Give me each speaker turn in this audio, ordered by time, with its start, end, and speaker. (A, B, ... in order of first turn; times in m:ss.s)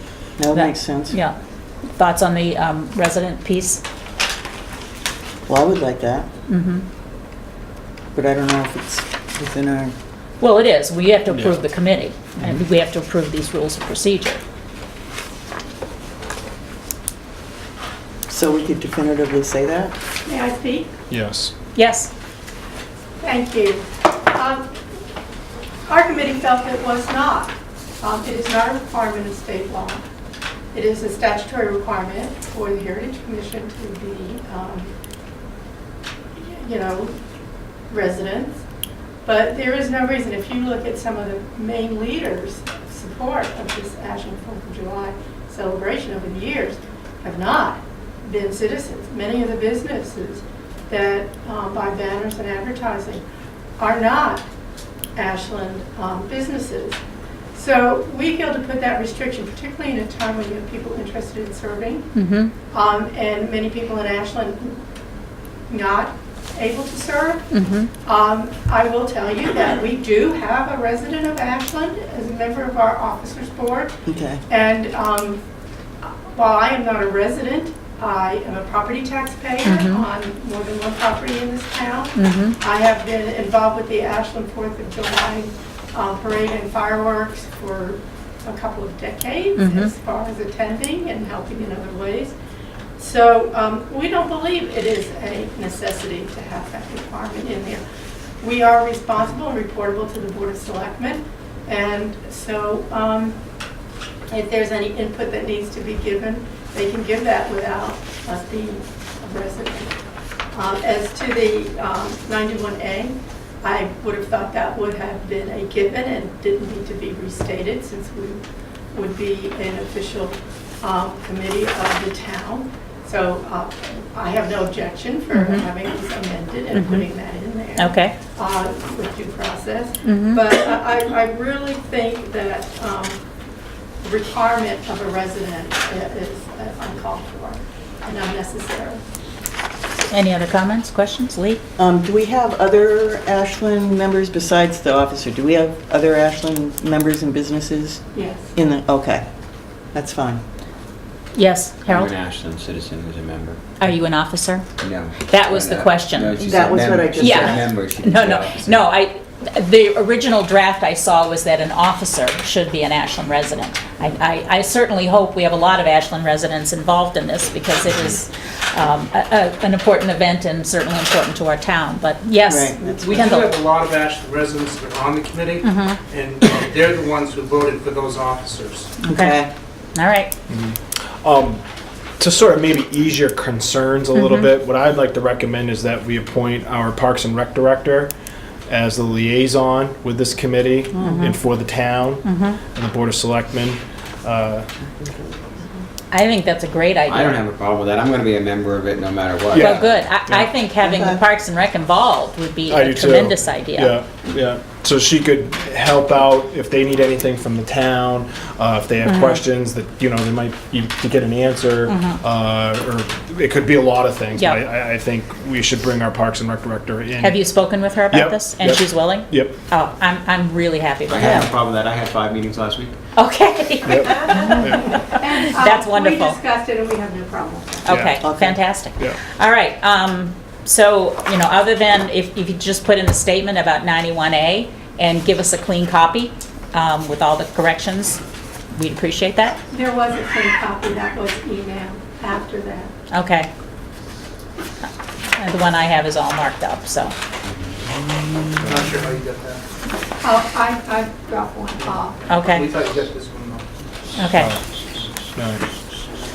0:00.4-0:01.2 A
0:00.5-0:01.4 B
0:02.0-0:03.8 B
0:05.5-0:06.3 A
0:06.5-0:06.9 B
0:08.2-0:10.0 A
0:10.4-0:14.4 B
0:11.3-0:11.6 C
0:18.3-0:20.0 A
0:20.2-0:20.9 D
0:21.1-0:21.5 C
0:21.8-0:22.1 B
0:23.2-0:24.7 D
0:25.9-0:30.0 D
0:30.7-0:34.9 D
0:36.4-0:37.2 D
0:37.9-0:38.6 D
0:39.2-0:53.2 D
0:53.8-0:54.5 D
0:55.2-0:57.0 D
0:57.5-1:02.1 D
1:02.2-1:02.5 B
1:02.7-1:04.8 D
1:05.7-1:07.5 D
1:07.5-1:07.9 B
1:08.0-1:15.4 D
1:14.1-1:14.4 A
1:16.0-1:32.3 D
1:19.6-1:20.0 B
1:22.2-1:22.6 B
1:29.6-1:29.9 B
1:33.0-1:37.8 D
1:38.4-1:43.4 D
1:44.3-1:50.0 D
1:50.5-2:13.2 D
2:05.3-2:05.6 B
2:06.7-2:07.1 B
2:07.8-2:08.2 B
2:10.0-2:10.4 B
2:14.0-2:19.0 D
2:20.1-2:21.6 B
2:21.8-2:29.2 A
2:28.1-2:28.5 D
2:29.9-2:30.4 A
2:31.4-2:32.1 B
2:31.9-2:33.6 E
2:33.8-2:34.7 B
2:34.8-2:38.9 E
2:35.2-2:36.4 B
2:36.4-2:37.7 A
2:37.2-2:53.5 B
2:52.5-2:53.2 A
2:52.9-2:58.9 F
2:55.6-2:56.0 B
2:59.0-2:59.4 B
2:59.1-2:59.5 A
3:00.0-3:00.3 B
3:00.5-3:01.6 C
3:02.2-3:08.1 C
3:04.2-3:04.5 B
3:08.7-3:14.7 C
3:11.0-3:11.4 B
3:12.2-3:12.6 B
3:16.1-3:17.4 B
3:17.1-3:20.0 E
3:19.5-3:20.5 C
3:19.5-3:24.0 B
3:20.8-3:21.2 A
3:22.7-3:37.4 C
3:29.0-3:29.4 B
3:31.9-3:32.2 B
3:37.2-3:41.5 B
3:38.1-3:39.6 C
3:41.1-3:43.0 E
3:41.2-3:41.5 A
3:43.2-3:46.4 B
3:43.9-3:44.9 C
3:44.0-3:48.0 D
3:47.9-3:58.2 B
3:47.9-3:48.2 C
3:48.2-3:48.6 A
3:58.7-3:59.6 B
3:59.7-4:02.9 D
4:03.1-4:03.5 B
4:05.4-4:07.2 B
4:07.4-4:07.8 E
4:08.5-4:08.9 E
4:08.6-4:09.6 F
4:10.2-4:12.3 D
4:11.9-4:13.7 F
4:12.3-4:12.7 B
4:14.2-4:14.5 B
4:14.4-4:14.6 C
4:15.3-4:15.6 C